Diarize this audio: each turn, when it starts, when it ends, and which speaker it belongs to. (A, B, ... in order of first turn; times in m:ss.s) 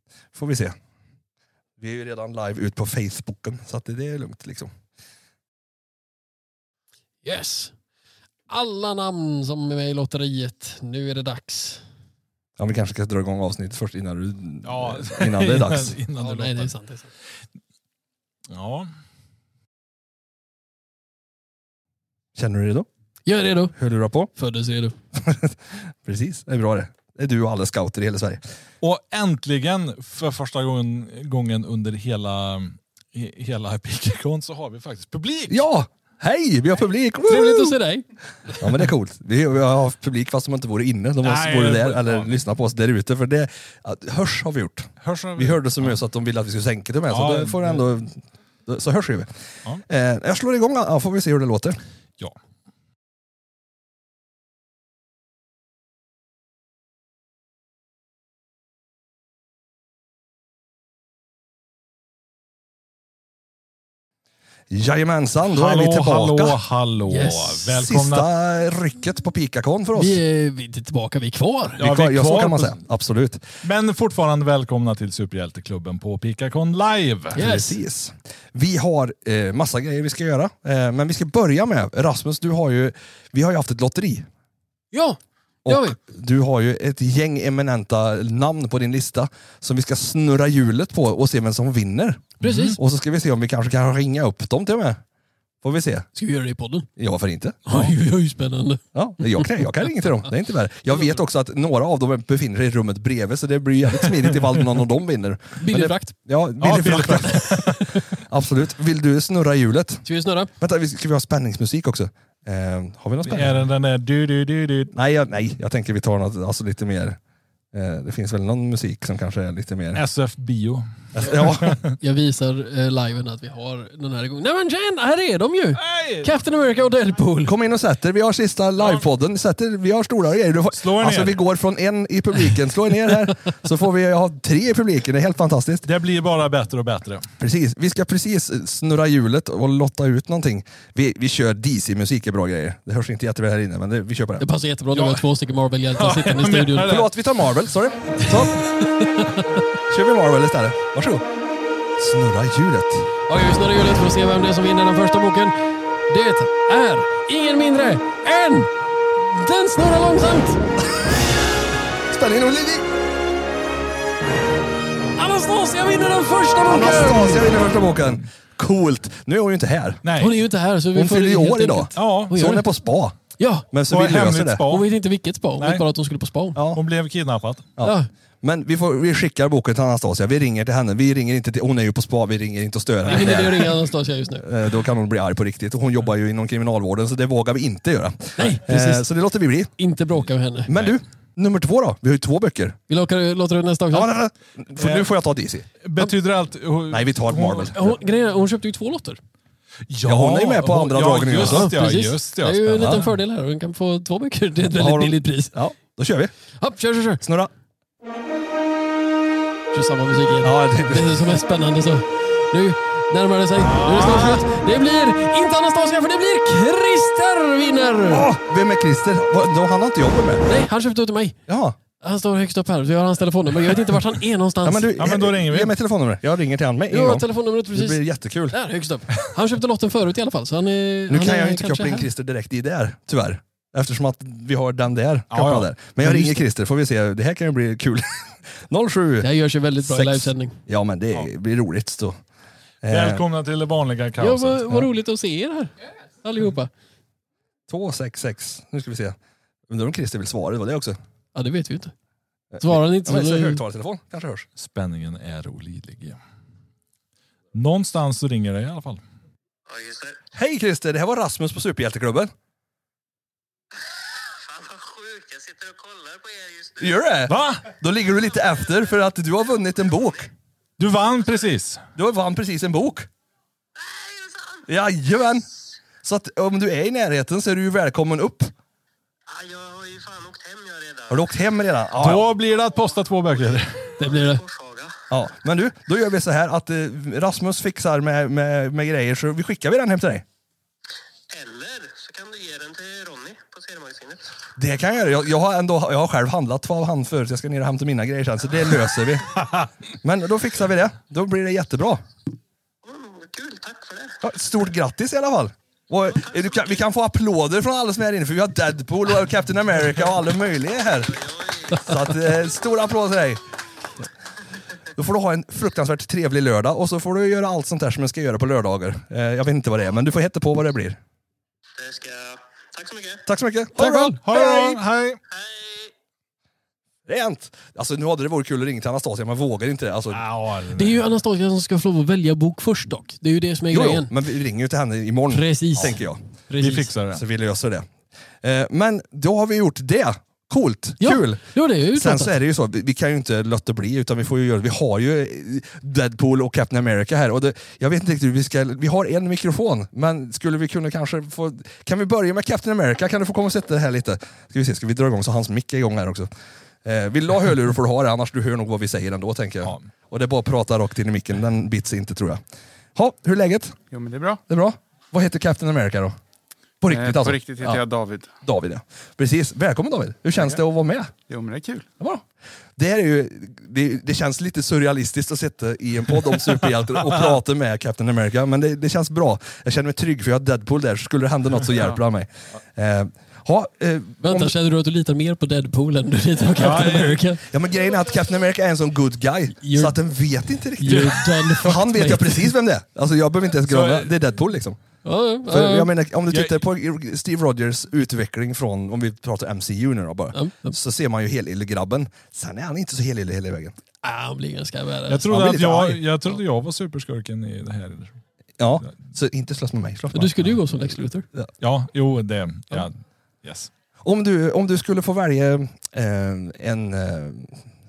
0:00.3-0:00.8 A
0:01.8-0:04.7 A
0:07.2-0:07.7 B
0:08.5-0:11.8 B
0:12.6-0:16.0 A
0:14.6-0:16.7 C
0:16.1-0:17.1 B
0:18.5-0:18.9 C
0:22.4-0:22.9 A
0:23.2-0:23.7 B
0:23.7-0:24.3 A
0:24.3-0:24.9 B
0:25.1-0:28.4 A
0:28.8-0:35.6 C
0:35.5-0:37.8 A
0:37.2-0:38.0 B
0:38.6-0:49.3 A
0:41.2-0:42.4 C
0:45.0-0:46.0 C
0:47.1-0:47.8 C
0:49.9-0:51.8 A
1:04.7-1:06.6 A
1:05.5-1:08.3 C
1:07.1-1:07.7 B
1:07.7-1:10.2 A
1:09.9-1:11.8 B
1:11.8-1:12.7 C
1:11.8-1:13.4 A
1:13.6-1:17.4 C
1:17.4-1:17.8 B
1:17.4-1:24.2 A
1:24.9-1:26.0 B
1:25.6-1:35.0 A
1:32.4-1:32.8 B
1:32.4-1:32.8 C
1:35.6-1:36.1 A
1:36.1-1:36.9 B
1:37.0-1:37.9 A
1:37.6-1:38.8 B
1:38.9-1:50.0 A
1:39.4-1:39.6 B
1:45.6-1:46.1 B
1:46.6-1:48.0 C
1:50.0-1:50.5 B
1:50.6-1:53.6 A
1:53.2-1:54.9 C
1:54.9-1:57.2 A
1:57.7-2:00.0 A
1:59.9-2:01.9 C
2:01.2-2:01.8 A
2:02.0-2:07.5 B
2:05.8-2:06.3 C
2:07.4-2:15.9 A
2:10.7-2:11.4 C
2:15.8-2:17.2 C
2:17.4-2:24.4 A
2:24.4-2:27.0 B
2:24.9-2:25.2 C
2:25.9-2:27.1 C
2:26.8-2:28.6 A
2:28.2-2:29.4 B
2:29.9-2:31.2 A
2:32.0-2:33.1 A
2:33.3-2:35.5 B
2:36.1-2:40.6 B
2:42.1-2:42.9 A
2:45.1-2:47.5 B
2:46.6-2:50.0 A
2:50.0-2:50.3 C
2:50.2-2:52.7 B
2:50.9-2:53.2 A
2:52.0-2:52.4 C
2:53.4-2:53.7 B
2:53.7-2:54.6 A
2:53.9-2:54.9 C
2:54.7-2:56.6 B
2:55.6-2:55.8 C
2:56.5-2:56.8 A
2:56.7-2:57.7 C
2:57.8-3:03.7 A
2:57.8-2:58.1 B
3:03.0-3:04.4 B
3:04.4-3:09.7 A
3:08.4-3:09.1 B
3:09.6-3:10.7 B
3:10.7-3:12.8 A
3:10.7-3:11.0 C
3:12.9-3:14.1 B
3:13.9-3:15.6 A
3:14.8-3:15.1 C
3:15.8-3:17.7 C
3:16.9-3:17.9 A
3:17.6-3:19.2 B
3:19.9-3:23.1 C
3:20.0-3:21.7 A
3:21.3-3:25.5 B
3:22.8-3:23.0 A
3:24.7-3:26.3 A
3:26.6-3:27.2 B
3:27.2-3:27.5 A
3:29.7-3:38.3 B
3:30.4-3:31.4 A
3:33.6-3:34.4 C
3:38.1-3:40.5 A
3:40.4-3:41.4 B
3:41.5-3:41.8 A
3:42.0-3:44.9 B
3:44.6-3:48.6 A
3:45.0-3:45.7 C
3:46.9-3:52.1 B
3:51.1-3:58.0 A
3:55.3-3:55.7 C
3:56.0-3:56.4 B
3:58.6-4:02.2 A
3:59.2-4:00.6 B
4:02.8-4:03.2 A
4:02.9-4:04.6 C
4:04.2-4:06.7 B
4:07.7-4:09.2 A
4:09.7-4:11.0 A
4:11.3-4:11.9 B
4:12.5-4:14.5 A
4:12.6-4:13.6 B
4:14.6-4:16.2 C
4:17.5-4:19.0 C
4:20.3-4:22.3 A
4:24.4-4:26.7 D
4:26.8-4:30.3 A
4:27.3-4:27.6 C
4:30.8-4:31.8 C
4:32.0-4:33.1 A
4:34.1-4:34.5 D
4:34.6-4:35.4 A
4:36.0-4:38.5 A
4:39.3-4:41.0 D
4:41.1-4:42.3 A
4:42.0-4:44.0 C
4:44.0-4:44.5 B
4:44.5-4:44.9 D
4:45.1-4:50.2 A
4:51.3-4:54.3 D
4:54.5-4:59.4 A
5:00.0-5:02.0 A
5:02.9-5:04.1 D
5:04.2-5:13.4 A
5:14.9-5:21.0 A
5:21.8-5:23.2 D
5:23.2-5:24.8 A
5:23.7-5:24.2 B
5:24.0-5:25.2 C
5:27.0-5:30.2 A
5:30.1-5:31.0 C
5:30.7-5:34.1 B
5:33.7-5:36.3 A
5:35.3-5:36.9 B
5:36.6-5:37.2 C
5:37.1-5:37.9 A
5:38.4-5:56.3 A
5:41.0-5:42.3 B
5:56.8-6:02.4 A
6:03.0-6:03.8 A
6:03.9-6:04.4 E
6:04.5-6:06.1 A
6:06.8-6:07.8 A
6:06.9-6:08.3 E
6:08.4-6:11.1 A
6:11.3-6:11.9 E
6:12.0-6:12.2 A
6:12.8-6:24.5 A
6:21.7-6:22.0 E
6:24.2-6:27.4 B
6:26.5-6:27.2 C
6:27.5-6:34.8 A
6:29.6-6:30.0 B
6:30.7-6:32.5 B
6:33.6-6:34.1 C
6:35.0-6:35.9 B
6:35.5-6:43.7 A
6:36.3-6:36.6 C
6:40.3-6:40.8 B
6:44.0-6:45.3 B
6:45.1-6:48.2 C
6:45.3-6:46.0 A
6:48.6-6:50.3 A
6:50.1-6:51.3 B
6:51.6-6:52.9 C
6:53.4-6:53.7 C
6:54.0-6:57.7 A